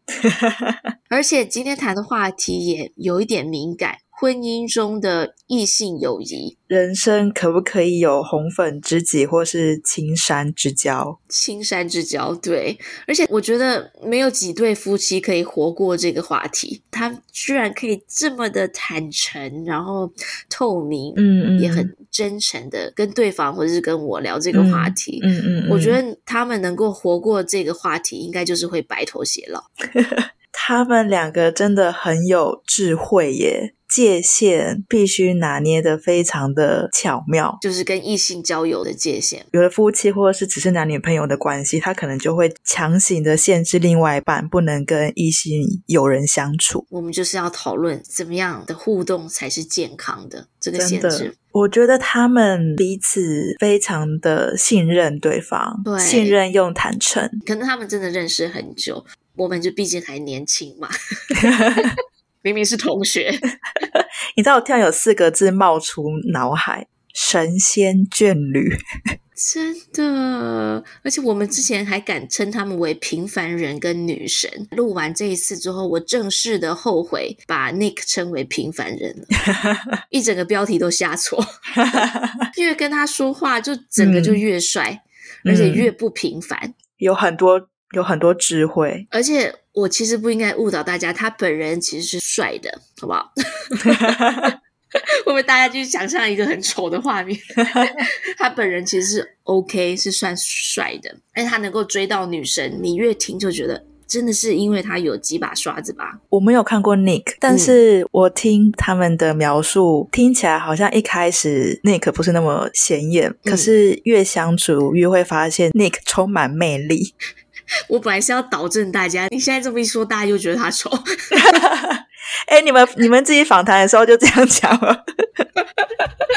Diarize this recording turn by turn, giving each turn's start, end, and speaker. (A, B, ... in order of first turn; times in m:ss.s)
0:00.2-0:00.8 A
0:01.1-0:06.6 B
0:06.7-0:11.2 A
0:11.3-0:29.7 B
0:21.2-0:21.9 A
0:24.5-0:26.0 A
0:30.0-0:37.6 A
0:37.6-0:39.5 B
0:39.5-0:46.8 A
0:46.9-0:51.4 B
0:50.8-0:57.4 A
0:55.8-0:56.4 B
0:57.4-1:01.9 B
1:01.4-1:01.9 A
1:02.4-1:03.5 B
1:03.9-1:08.8 A
1:09.4-1:19.4 B
1:19.5-1:20.0 A
1:20.1-1:21.5 B
1:21.8-1:22.4 A
1:22.5-1:26.7 B
1:24.0-1:24.4 A
1:25.4-1:25.9 A
1:27.0-1:29.1 A
1:29.1-1:46.2 B
1:33.9-1:34.5 A
1:46.3-1:57.1 A
1:47.5-1:47.8 B
1:53.4-1:53.7 B
1:57.9-2:01.4 B
2:01.3-2:05.5 A